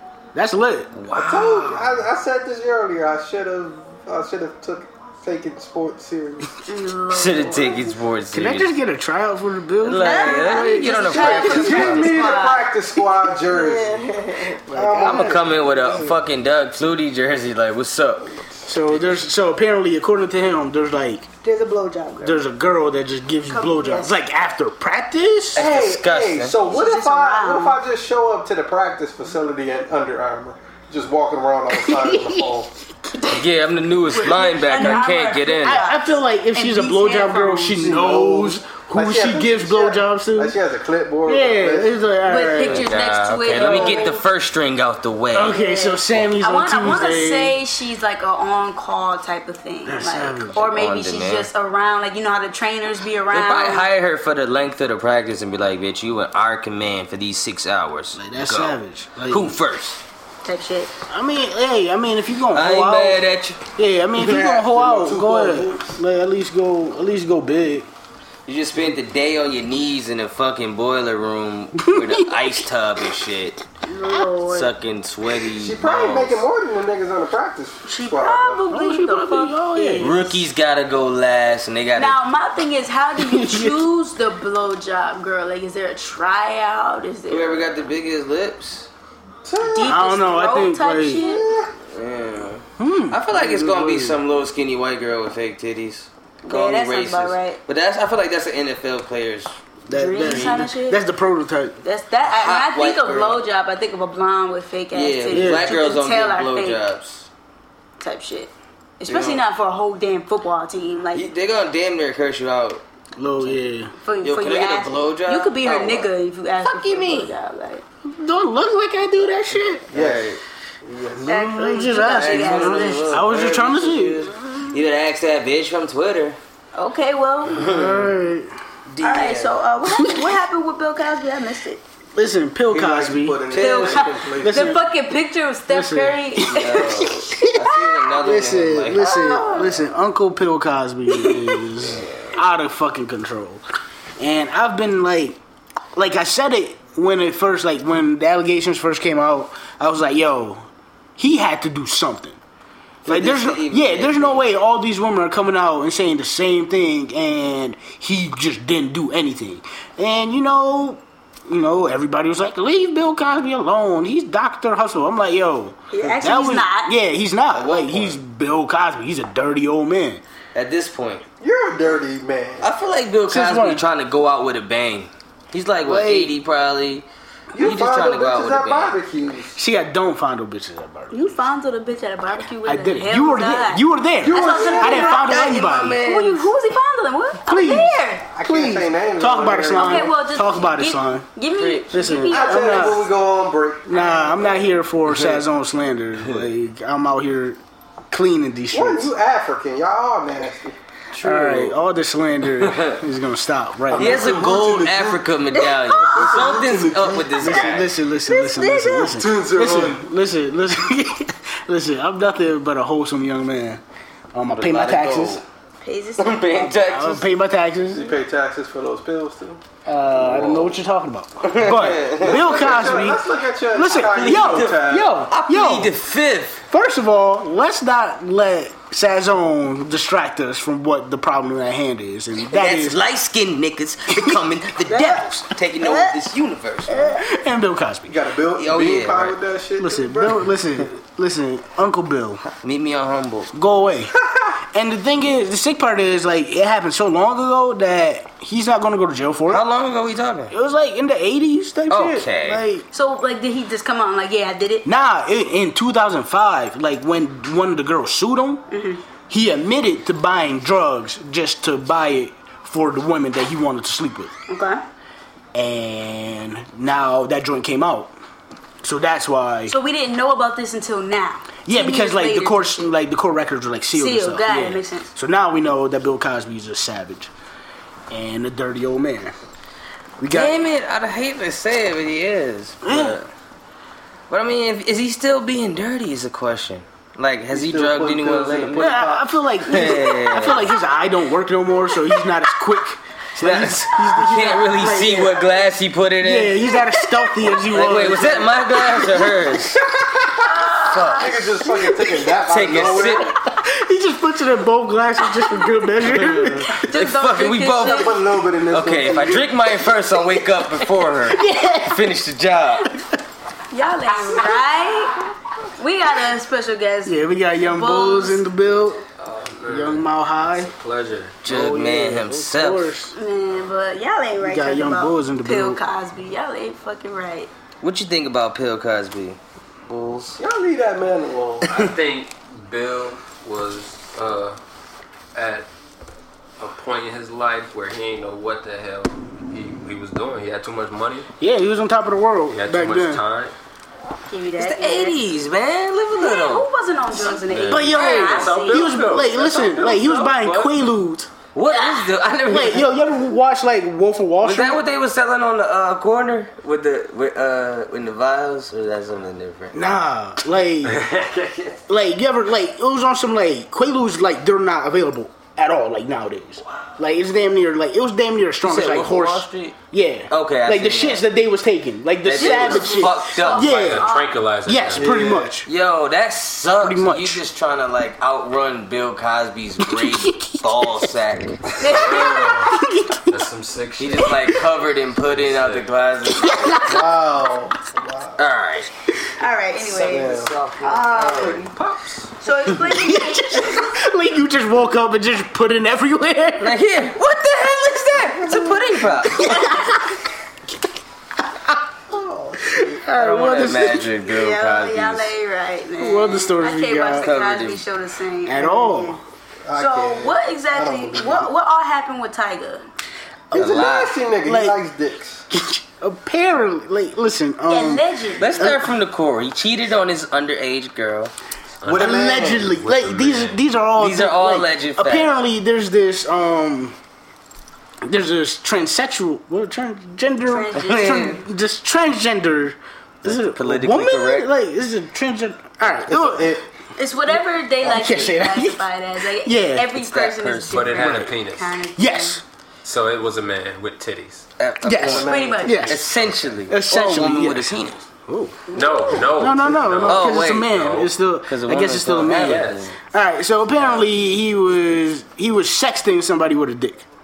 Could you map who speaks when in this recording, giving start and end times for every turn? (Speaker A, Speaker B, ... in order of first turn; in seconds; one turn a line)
Speaker A: 0.3-0.9
Speaker B: 0.9-1.9
Speaker C: 1.1-6.5
Speaker D: 6.7-7.9
Speaker B: 7.1-8.7
Speaker A: 8.3-12.3
Speaker B: 9.8-12.2
Speaker D: 9.9-12.7
Speaker C: 11.1-14.1
Speaker D: 13.5-14.6
Speaker A: 14.7-15.8
Speaker C: 14.7-16.1
Speaker B: 15.0-18.3
Speaker A: 18.6-21.3
Speaker D: 21.4-22.4
Speaker A: 22.2-25.6
Speaker D: 23.5-24.1
Speaker B: 25.5-26.5
Speaker C: 25.5-32.7
Speaker D: 26.6-27.8
Speaker A: 31.7-32.5
Speaker B: 33.3-35.9
Speaker A: 34.1-40.6
Speaker D: 34.2-37.8
Speaker C: 37.7-42.1
Speaker A: 41.2-42.9
Speaker D: 42.2-44.2
Speaker B: 42.6-45.5
Speaker A: 43.5-44.1
Speaker A: 45.3-47.6
Speaker D: 45.5-53.9
Speaker A: 49.9-50.6
Speaker B: 50.5-51.5
Speaker B: 53.3-58.8
Speaker A: 58.1-59.6
Speaker B: 59.3-60.0
Speaker D: 60.4-60.9
Speaker A: 61.1-63.2
Speaker B: 62.5-63.6
Speaker A: 63.8-67.9
Speaker C: 64.2-66.0
Speaker B: 68.5-73.6
Speaker A: 71.8-72.6
Speaker D: 73.8-74.7
Speaker B: 74.5-76.5
Speaker C: 75.5-78.6
Speaker D: 77.8-80.4
Speaker A: 78.7-80.1
Speaker B: 80.0-82.2
Speaker D: 82.0-87.7
Speaker A: 83.2-83.8
Speaker B: 87.3-88.9
Speaker C: 89.4-90.0
Speaker D: 89.7-91.4
Speaker A: 89.8-91.2
Speaker C: 91.2-91.7
Speaker B: 91.9-99.5
Speaker A: 92.8-94.2
Speaker D: 96.4-97.6
Speaker A: 99.9-101.8
Speaker D: 99.9-101.0
Speaker B: 100.2-100.6
Speaker D: 101.8-106.8
Speaker B: 102.3-103.4
Speaker B: 104.9-107.3
Speaker A: 105.3-105.7
Speaker D: 108.0-111.3
Speaker B: 109.1-109.4
Speaker B: 111.1-112.8
Speaker A: 113.2-113.9
Speaker D: 114.0-117.8
Speaker B: 114.2-116.1
Speaker B: 116.6-117.3
Speaker A: 118.0-119.9
Speaker B: 119.9-120.4
Speaker C: 119.9-121.2
Speaker A: 121.2-124.3
Speaker D: 121.2-123.2
Speaker B: 122.0-126.4
Speaker D: 126.7-127.7
Speaker B: 127.5-128.1
Speaker A: 127.5-128.5
Speaker B: 128.9-129.6
Speaker D: 129.0-131.8
Speaker A: 129.9-130.3
Speaker A: 132.1-133.7
Speaker C: 132.7-134.7
Speaker D: 133.5-137.1
Speaker B: 133.6-133.9
Speaker A: 134.3-134.8
Speaker A: 135.7-137.6
Speaker B: 136.4-139.5
Speaker A: 138.2-143.6
Speaker D: 138.9-139.7
Speaker D: 141.1-141.6
Speaker B: 141.8-142.3
Speaker A: 144.2-145.4
Speaker A: 145.9-152.4
Speaker B: 153.0-154.5
Speaker A: 153.1-170.2
Speaker D: 165.9-166.9
Speaker B: 167.5-168.2
Speaker B: 170.5-171.2
Speaker C: 171.4-172.7
Speaker B: 172.6-177.1
Speaker A: 173.3-173.8
Speaker A: 175.8-176.3
Speaker C: 177.5-179.6
Speaker B: 177.6-179.0
Speaker A: 179.6-181.2
Speaker D: 181.1-188.2
Speaker A: 182.6-186.0
Speaker C: 184.2-185.4
Speaker B: 184.9-186.5
Speaker A: 187.4-191.3
Speaker C: 188.3-190.1
Speaker D: 189.7-193.0
Speaker B: 191.6-191.9
Speaker A: 191.9-193.1
Speaker C: 192.3-194.6
Speaker A: 193.9-197.6
Speaker D: 193.9-194.5
Speaker B: 195.1-195.4
Speaker A: 198.1-199.1
Speaker C: 198.7-201.8
Speaker A: 201.2-204.5
Speaker C: 203.9-205.2
Speaker B: 203.9-207.9
Speaker D: 205.5-206.4
Speaker C: 206.0-207.8
Speaker A: 207.4-213.8
Speaker D: 208.2-209.2
Speaker C: 209.1-210.0
Speaker A: 214.3-215.4
Speaker B: 214.5-215.4
Speaker D: 215.8-216.7
Speaker B: 216.2-217.3
Speaker A: 216.6-218.1
Speaker C: 217.9-219.6
Speaker A: 219.8-225.9
Speaker B: 220.1-220.8
Speaker B: 221.4-223.1
Speaker C: 222.2-225.2
Speaker B: 223.8-226.6
Speaker A: 226.7-233.0
Speaker B: 232.5-237.1
Speaker A: 234.1-234.4
Speaker D: 234.9-235.2
Speaker D: 235.8-236.2
Speaker D: 236.9-237.2
Speaker A: 237.2-238.2
Speaker C: 238.1-240.5
Speaker B: 238.6-239.4
Speaker A: 239.8-242.4
Speaker B: 242.6-243.5
Speaker A: 243.5-244.1
Speaker A: 244.7-249.6
Speaker B: 249.5-250.5
Speaker A: 250.5-252.8
Speaker B: 251.9-252.6
Speaker D: 252.9-254.8
Speaker A: 254.8-258.6
Speaker D: 258.7-259.0
Speaker A: 259.3-264.3
Speaker D: 264.5-264.8
Speaker A: 265.5-268.1
Speaker A: 268.8-269.7
Speaker D: 269.7-272.9
Speaker A: 271.6-277.3
Speaker D: 273.9-275.1
Speaker A: 278.1-279.3
Speaker A: 280.2-280.6
Speaker B: 280.3-283.3
Speaker A: 282.8-283.2
Speaker B: 284.3-289.1
Speaker C: 287.5-289.3
Speaker A: 288.8-295.5
Speaker B: 289.7-290.7
Speaker B: 293.4-296.6
Speaker A: 296.2-299.3
Speaker B: 297.7-299.8
Speaker D: 300.4-301.2
Speaker B: 300.9-301.3
Speaker C: 301.1-303.3
Speaker A: 301.8-306.7
Speaker B: 302.5-303.3
Speaker D: 306.6-308.2
Speaker B: 306.8-312.9
Speaker C: 307.8-309.5
Speaker A: 311.2-312.1
Speaker D: 313.7-315.2
Speaker D: 315.8-318.4
Speaker A: 317.0-319.0
Speaker E: 319.2-321.4
Speaker A: 319.6-320.7
Speaker B: 321.4-322.9
Speaker A: 321.4-323.1
Speaker D: 323.1-327.5
Speaker A: 324.4-325.8
Speaker B: 327.8-330.4
Speaker C: 330.4-331.8
Speaker E: 331.7-334.6
Speaker E: 335.3-335.7
Speaker E: 336.6-341.3
Speaker A: 341.4-343.2
Speaker E: 342.5-343.5
Speaker D: 344.3-345.2
Speaker B: 344.6-346.7
Speaker D: 346.2-348.9
Speaker B: 347.3-348.4
Speaker A: 347.7-351.3
Speaker E: 348.1-350.7
Speaker B: 351.5-352.9
Speaker D: 351.7-352.1
Speaker A: 352.5-354.8
Speaker B: 354.4-359.8
Speaker A: 359.7-361.0
Speaker E: 360.9-361.8
Speaker A: 361.9-374.1
Speaker B: 368.6-369.8
Speaker B: 370.3-371.2
Speaker B: 372.2-373.9
Speaker D: 372.3-374.4
Speaker E: 373.7-375.3
Speaker A: 374.6-375.7
Speaker C: 375.1-375.4
Speaker B: 375.6-381.6
Speaker A: 376.8-377.4
Speaker A: 379.8-381.1
Speaker D: 381.8-382.6
Speaker E: 381.8-384.3
Speaker A: 382.6-383.2
Speaker B: 384.0-387.1
Speaker E: 385.2-385.9
Speaker A: 386.4-386.9
Speaker C: 386.7-388.4
Speaker B: 388.4-388.9
Speaker D: 389.4-391.6
Speaker C: 389.9-390.5
Speaker E: 390.1-392.3
Speaker D: 392.4-393.9
Speaker A: 392.8-396.8
Speaker B: 396.6-399.5
Speaker A: 399.4-400.1
Speaker C: 402.1-403.0
Speaker A: 402.7-404.1
Speaker B: 403.1-405.3
Speaker D: 404.2-409.2
Speaker A: 406.0-407.3
Speaker B: 407.2-407.8
Speaker A: 408.4-409.2
Speaker C: 409.7-411.5
Speaker D: 409.7-412.8
Speaker A: 413.5-414.8
Speaker B: 413.5-414.2
Speaker C: 413.5-415.4
Speaker A: 415.5-418.9
Speaker D: 417.7-418.7
Speaker B: 418.4-421.3
Speaker E: 421.8-423.6
Speaker C: 421.8-422.8
Speaker A: 421.9-426.9
Speaker B: 424.0-425.3
Speaker A: 428.0-436.6
Speaker D: 430.4-431.4
Speaker B: 430.8-431.4
Speaker B: 433.2-434.5
Speaker C: 436.1-436.6
Speaker D: 437.0-442.4
Speaker A: 437.8-438.8
Speaker A: 439.3-439.9
Speaker B: 439.9-441.3
Speaker E: 440.7-441.8
Speaker A: 441.0-441.3
Speaker A: 441.9-442.4
Speaker E: 442.8-444.4
Speaker B: 444.6-448.0
Speaker A: 444.8-446.1
Speaker C: 445.0-445.9
Speaker D: 445.2-445.9
Speaker A: 446.7-457.0
Speaker E: 448.7-451.1
Speaker D: 448.7-449.2
Speaker B: 450.0-452.9
Speaker E: 452.4-452.8